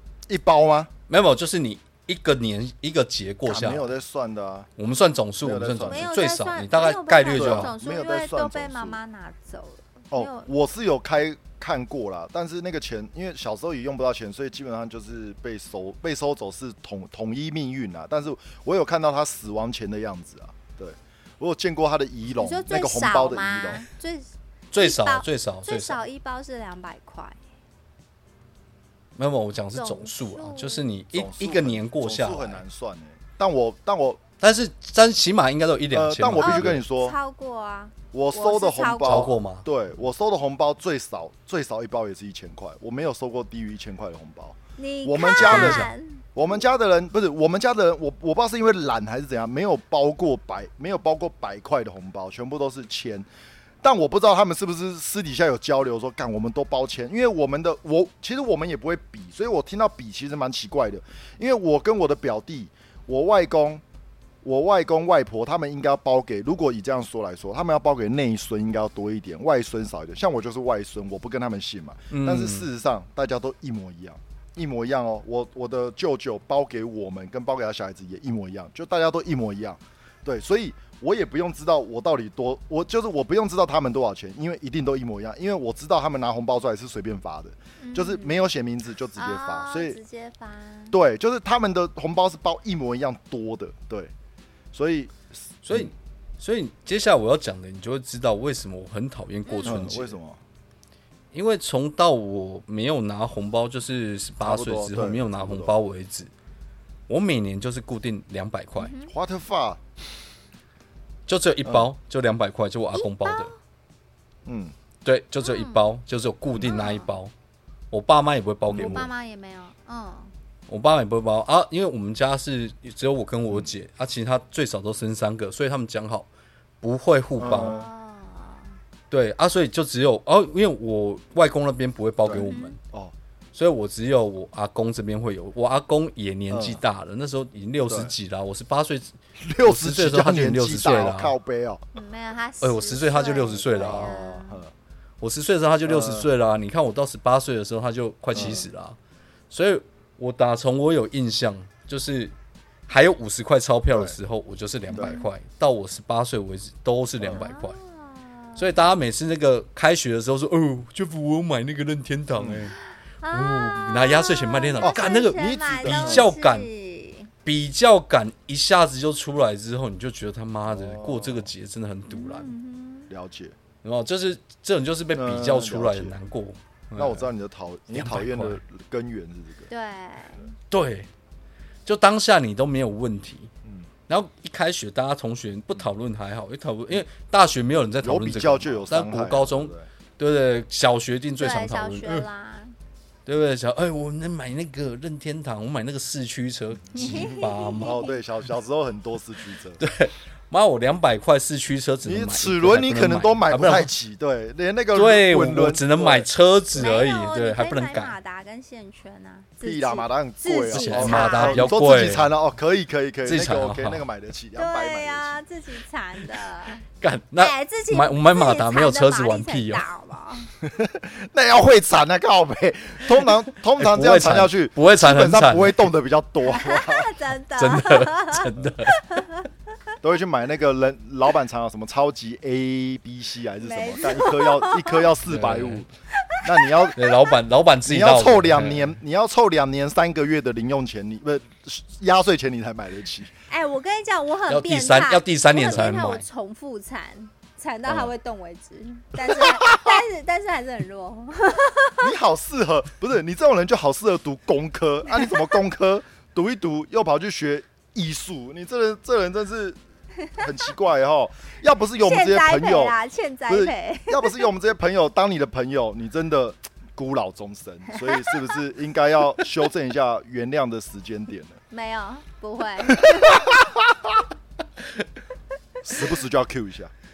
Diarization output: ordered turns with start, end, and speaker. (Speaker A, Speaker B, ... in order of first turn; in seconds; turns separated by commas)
Speaker A: 0.3-0.9, Speaker B: 1.1-3.9, Speaker A: 3.5-4.7, Speaker B: 4.8-7.7, Speaker A: 5.4-6.1, Speaker C: 5.8-10.5, Speaker A: 7.3-9.0, Speaker A: 10.1-23.9, Speaker C: 22.4-27.4, Speaker B: 24.7-26.0, Speaker B: 29.2-32.6, Speaker C: 29.7-30.9, Speaker A: 31.1-34.2, Speaker B: 34.4-36.8, Speaker A: 35.9-37.2, Speaker C: 36.4-39.4, Speaker A: 38.1-53.3, Speaker B: 39.0-39.7, Speaker C: 44.8-46.3, Speaker B: 45.4-45.9, Speaker A: 53.8-63.8, Speaker A: 64.4-90.0, Speaker B: 72.1-72.7, Speaker C: 87.8-88.4, Speaker C: 89.2-91.0, Speaker A: 90.9-94.1, Speaker A: 94.7-95.9, Speaker B: 95.7-100.1, Speaker C: 99.5-99.8, Speaker A: 99.7-100.4, Speaker B: 101.3-106.3, Speaker A: 104.4-105.8, Speaker B: 107.1-108.9, Speaker C: 108.8-109.1, Speaker A: 109.1-109.8, Speaker B: 111.3-113.5, Speaker C: 112.9-113.6, Speaker A: 114.5-114.8, Speaker B: 115.0-117.3, Speaker C: 115.4-115.9, Speaker C: 116.6-117.1, Speaker B: 117.9-119.1, Speaker A: 118.7-119.1, Speaker C: 118.7-120.3, Speaker B: 120.7-126.3, Speaker B: 126.8-127.8, Speaker A: 127.4-127.9, Speaker C: 127.6-128.8, Speaker B: 129.1-132.8, Speaker A: 132.2-133.1, Speaker C: 132.4-132.8, Speaker B: 133.5-139.1, Speaker A: 136.5-136.8, Speaker A: 137.9-138.1, Speaker A: 139.4-141.8, Speaker B: 139.6-141.3, Speaker C: 141.9-144.6, Speaker B: 142.6-144.1, Speaker A: 143.4-144.7, Speaker B: 145.2-149.0, Speaker A: 145.8-146.3, Speaker A: 148.3-148.7, Speaker C: 148.4-148.7, Speaker B: 149.5-152.3, Speaker B: 152.9-157.8, Speaker A: 153.9-154.2, Speaker A: 154.9-155.2, Speaker C: 155.0-155.3, Speaker A: 157.2-157.5, Speaker C: 157.3-158.7, Speaker B: 158.6-162.8, Speaker A: 162.4-162.7, Speaker C: 163.2-167.3, Speaker B: 163.3-166.7, Speaker A: 164.8-166.3, Speaker B: 167.4-172.5, Speaker A: 170.7-171.5, Speaker C: 172.1-173.1, Speaker A: 173.1-173.6, Speaker B: 173.8-177.3, Speaker A: 175.1-176.2, Speaker A: 177.0-179.7, Speaker B: 177.9-178.6, Speaker C: 179.7-180.5, Speaker B: 180.7-181.1, Speaker B: 181.9-183.5, Speaker B: 184.1-192.2, Speaker A: 188.0-189.9, Speaker C: 191.4-192.8, Speaker B: 193.3-198.0, Speaker C: 196.9-198.2, Speaker A: 197.0-197.3, Speaker A: 197.8-199.8, Speaker B: 199.8-203.9, Speaker A: 202.0-207.0, Speaker B: 204.9-208.2, Speaker C: 206.8-211.7, Speaker A: 209.6-215.4, Speaker B: 210.7-212.3, Speaker B: 213.2-214.1, Speaker C: 214.6-216.8, Speaker B: 217.0-219.8, Speaker C: 217.4-220.5, Speaker A: 220.6-227.1, Speaker B: 223.8-225.9, Speaker C: 226.4-229.5, Speaker B: 227.6-229.0, Speaker A: 230.0-235.9, Speaker C: 233.6-235.1, Speaker B: 235.2-235.9, Speaker C: 236.2-237.3, Speaker A: 236.4-237.0, Speaker B: 237.0-239.0, Speaker A: 237.8-243.3, Speaker C: 243.5-252.1, Speaker B: 244.5-246.2, Speaker A: 249.2-250.0, Speaker A: 252.0-259.8, Speaker A: 260.4-263.0, Speaker C: 262.0-264.4, Speaker A: 263.5-271.6, Speaker C: 267.9-268.3, Speaker C: 271.7-273.6, Speaker A: 273.0-274.1, Speaker A: 275.8-276.9